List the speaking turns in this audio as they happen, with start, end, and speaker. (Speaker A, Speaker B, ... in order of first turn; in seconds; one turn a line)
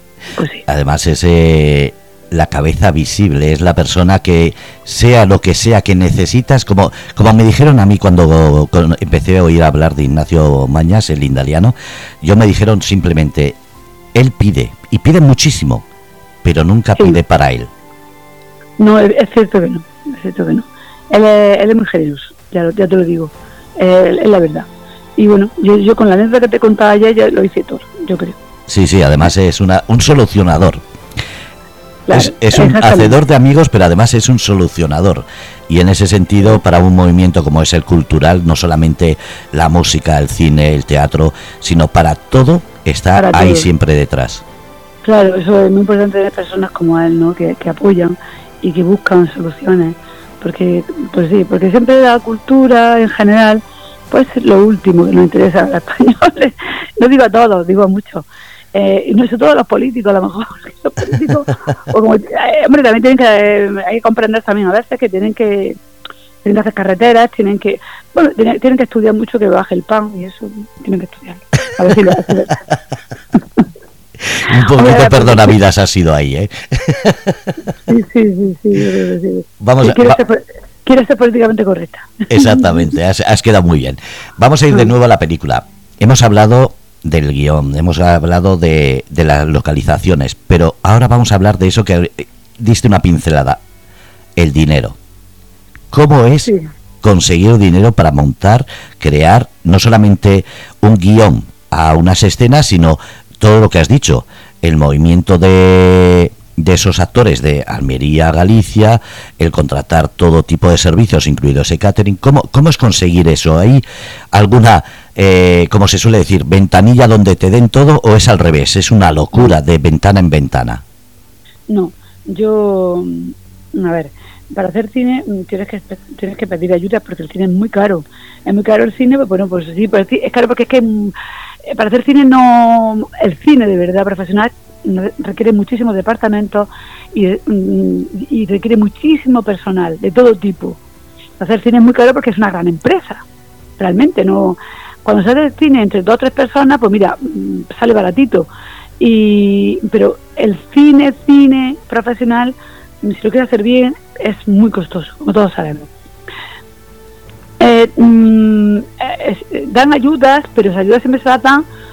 Speaker A: 0.4-0.6
Speaker B: 0.7-13.6
Speaker B: 14.2-15.8
Speaker B: 16.4-17.7
Speaker A: 18.8-28.4
Speaker B: 28.7-30.8
Speaker A: 32.1-33.2
Speaker B: 32.1-44.4
Speaker A: 43.2-43.7
Speaker A: 45.0-65.8
Speaker A: 66.4-72.6
Speaker B: 74.3-77.5
Speaker A: 74.5-75.5
Speaker A: 77.9-82.9
Speaker B: 79.6-80.2
Speaker B: 82.3-93.6
Speaker B: 94.4-95.0
Speaker B: 95.9-96.5
Speaker B: 97.0-120.8
Speaker A: 121.7-131.1
Speaker A: 131.7-140.8
Speaker A: 141.4-143.2
Speaker A: 143.8-148.5
Speaker A: 149.0-155.9
Speaker A: 157.6-161.6